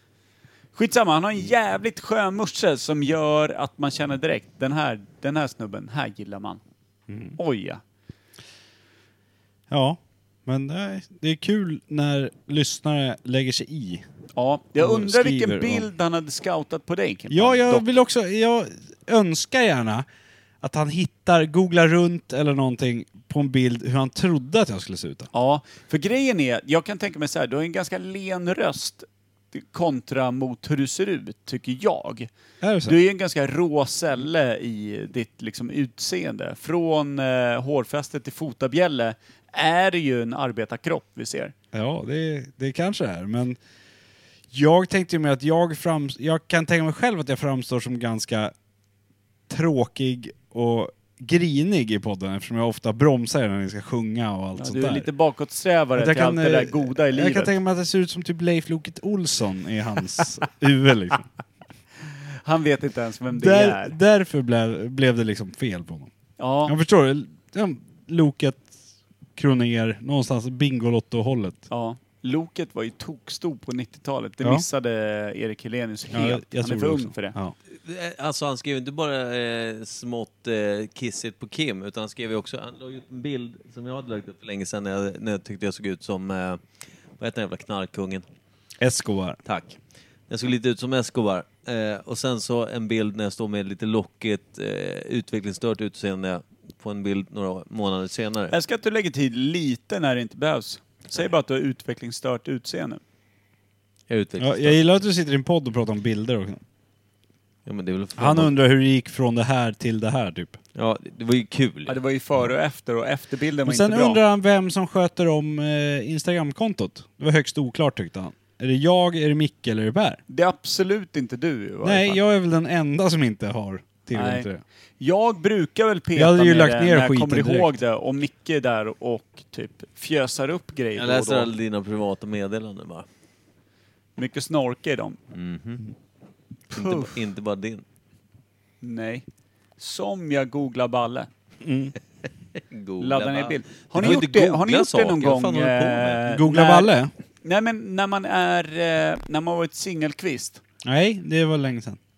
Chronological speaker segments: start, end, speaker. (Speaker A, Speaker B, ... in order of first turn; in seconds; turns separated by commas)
Speaker A: 0.7-6.6, Speaker B: 7.1-7.3, Speaker A: 7.4-7.8, Speaker B: 9.7-14.0, Speaker A: 14.3-17.8, Speaker B: 14.8-15.9, Speaker B: 17.3-20.0, Speaker B: 20.6-25.3, Speaker A: 25.3-32.3, Speaker B: 32.6-33.0, Speaker A: 32.8-41.5, Speaker B: 41.7-43.6, Speaker B: 44.5-48.5, Speaker B: 49.5-55.1, Speaker A: 54.5-57.5, Speaker B: 56.0-61.3, Speaker A: 62.4-64.0, Speaker B: 63.3-66.1, Speaker A: 66.4-66.7, Speaker B: 66.7-68.7, Speaker B: 69.3-71.6, Speaker A: 71.7-77.3, Speaker B: 76.1-77.5, Speaker C: 77.7-86.6, Speaker C: 87.2-88.2, Speaker B: 88.8-89.4, Speaker C: 89.5-89.8, Speaker C: 90.3-98.5, Speaker A: 98.5-103.0, Speaker C: 104.1-104.8, Speaker B: 104.4-106.6, Speaker C: 107.7-108.5, Speaker B: 108.2-110.6, Speaker C: 110.7-112.0, Speaker A: 111.9-114.2, Speaker B: 113.6-120.2, Speaker A: 120.3-122.2, Speaker B: 121.8-124.6, Speaker A: 124.1-124.5, Speaker A: 125.0-131.5, Speaker B: 126.2-127.7, Speaker C: 130.9-133.1, Speaker A: 134.2-135.2, Speaker C: 135.3-135.8, Speaker A: 136.7-137.1, Speaker C: 136.7-137.8, Speaker A: 138.8-139.2, Speaker A: 139.8-141.3, Speaker B: 141.6-141.9, Speaker C: 142.6-146.2, Speaker A: 143.0-146.9, Speaker B: 146.2-147.1, Speaker A: 147.4-150.6, Speaker B: 150.8-152.0